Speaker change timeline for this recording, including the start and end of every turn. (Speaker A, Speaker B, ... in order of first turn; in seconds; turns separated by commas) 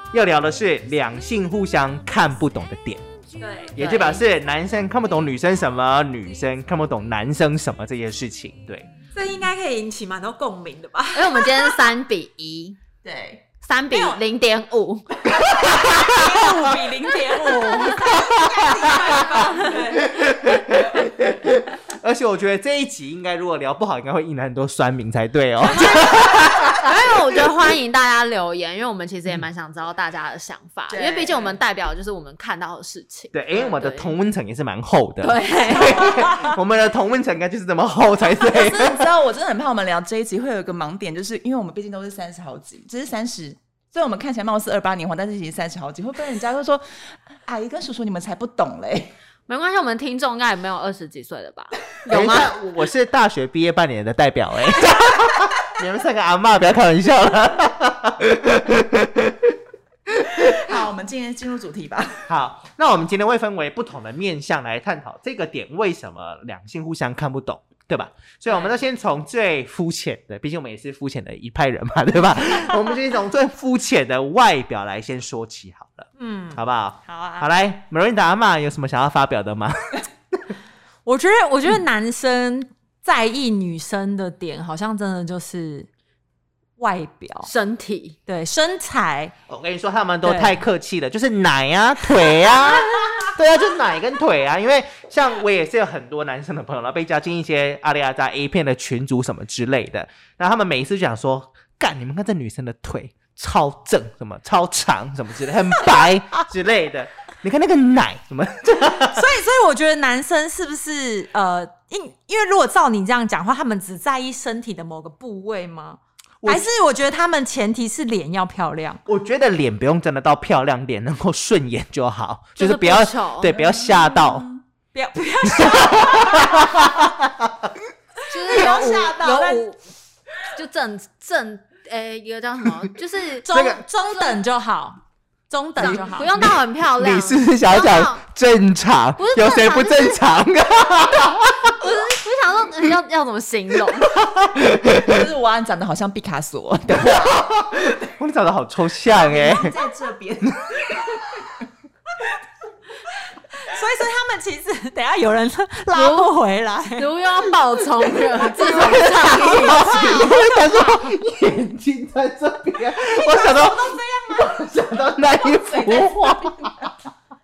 Speaker A: 0.1-3.0, Speaker B: 3.4-4.2, Speaker A: 3.8-8.9, Speaker B: 9.1-11.8, Speaker C: 11.1-12.8, Speaker D: 13.0-13.4, Speaker C: 13.6-15.2, Speaker B: 13.9-14.2, Speaker B: 15.6-20.2, Speaker A: 15.8-16.2, Speaker A: 20.0-26.9, Speaker B: 25.8-26.1, Speaker C: 26.6-34.1, Speaker D: 30.9-31.6, Speaker A: 33.3-39.1, Speaker C: 35.2-36.5, Speaker D: 38.4-49.1, Speaker C: 49.5-52.5, Speaker A: 52.1-59.4, Speaker D: 60.4-62.2, Speaker A: 62.3-80.0, Speaker B: 68.5-68.7, Speaker B: 76.2-77.5, Speaker B: 81.0-85.9, Speaker B: 86.8-87.5, Speaker C: 87.4-88.2, Speaker B: 88.3-89.3, Speaker A: 89.5-109.2, Speaker B: 90.2-90.6, Speaker B: 109.1-119.0, Speaker A: 119.0-124.5, Speaker C: 122.6-123.6, Speaker D: 123.6-124.6, Speaker B: 124.9-127.0, Speaker A: 125.6-127.5, Speaker C: 128.3-129.8, Speaker B: 128.3-129.6, Speaker C: 130.5-134.4, Speaker B: 133.4-136.5, Speaker C: 135.8-138.2, Speaker A: 137.0-141.8, Speaker C: 139.2-140.2, Speaker C: 141.8-144.2, Speaker A: 144.1-145.2, Speaker D: 145.0-147.5, Speaker A: 146.9-149.7, Speaker D: 149.1-150.8, Speaker B: 153.5-157.1, Speaker C: 155.9-156.3, Speaker C: 157.0-160.3, Speaker A: 158.5-166.9, Speaker D: 158.8-159.1, Speaker B: 159.1-161.1, Speaker D: 159.7-160.0, Speaker B: 163.1-164.6, Speaker D: 165.4-166.9